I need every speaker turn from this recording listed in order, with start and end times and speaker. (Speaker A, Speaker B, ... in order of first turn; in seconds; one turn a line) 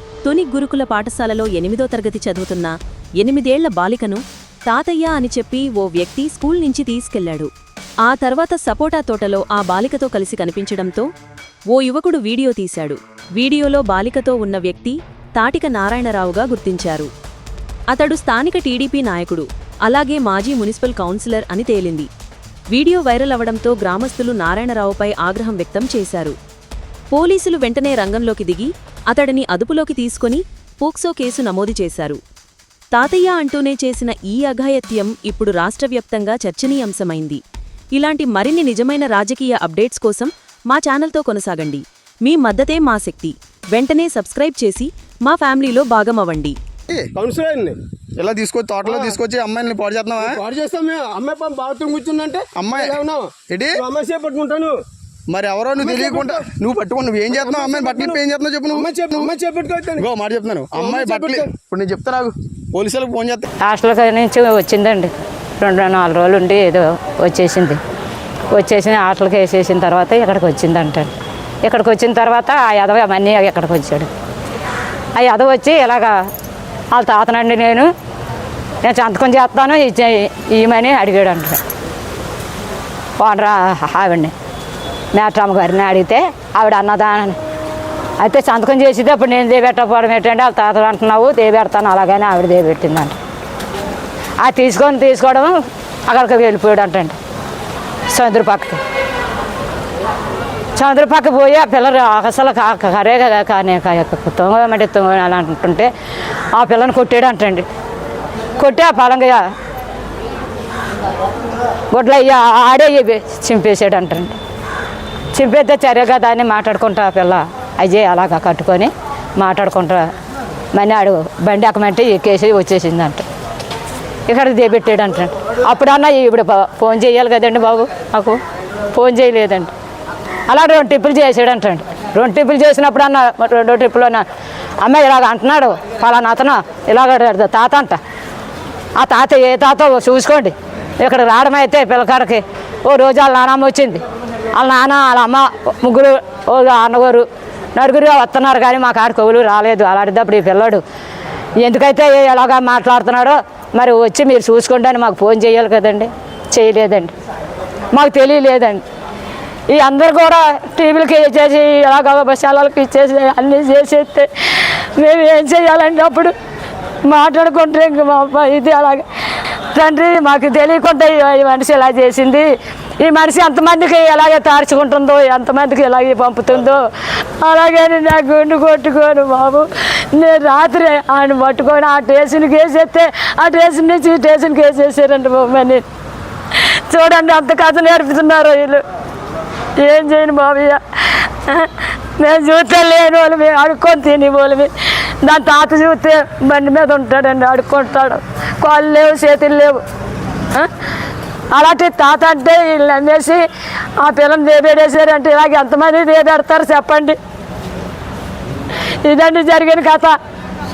Speaker A: 0.2-7.5
Speaker A: 8.1-11.1
Speaker A: 11.7-17.1
Speaker A: 17.9-22.1
Speaker A: 22.7-26.4
Speaker A: 27.1-32.2
Speaker A: 32.9-37.4
Speaker A: 38.0-46.6
Speaker B: 47.1-47.8
Speaker C: 48.1-50.4
Speaker B: 48.8-49.1
Speaker B: 50.2-54.8
Speaker C: 52.5-53.8
Speaker C: 55.3-59.3
Speaker B: 55.8-56.5
Speaker B: 57.3-58.2
Speaker B: 58.7-60.0
Speaker C: 60.0-63.5
Speaker B: 60.8-61.5
Speaker D: 63.6-67.8
Speaker D: 68.5-74.1
Speaker D: 75.2-76.2
Speaker D: 76.9-77.9
Speaker D: 78.8-81.6
Speaker D: 83.2-84.3
Speaker D: 85.1-87.4
Speaker D: 88.2-93.2
Speaker D: 94.4-95.5
Speaker D: 96.1-97.2
Speaker D: 98.1-98.8
Speaker D: 100.8-105.9
Speaker D: 106.6-107.7
Speaker D: 108.6-109.4
Speaker D: 111.9-114.4
Speaker D: 115.3-120.1
Speaker D: 120.8-123.2
Speaker D: 124.3-128.4
Speaker D: 128.9-129.7
Speaker D: 130.5-134.2
Speaker D: 134.8-138.0
Speaker D: 139.0-144.0
Speaker D: 144.6-150.8
Speaker D: 151.6-157.1
Speaker D: 157.9-158.8
Speaker D: 159.7-166.3
Speaker D: 167.1-169.1
Speaker D: 169.7-172.5
Speaker D: 173.0-176.8
Speaker D: 177.4-185.8
Speaker D: 186.9-188.8
Speaker D: 189.8-199.8
Speaker D: 201.5-203.4
Speaker D: 204.0-207.2
Speaker D: 209.0-210.2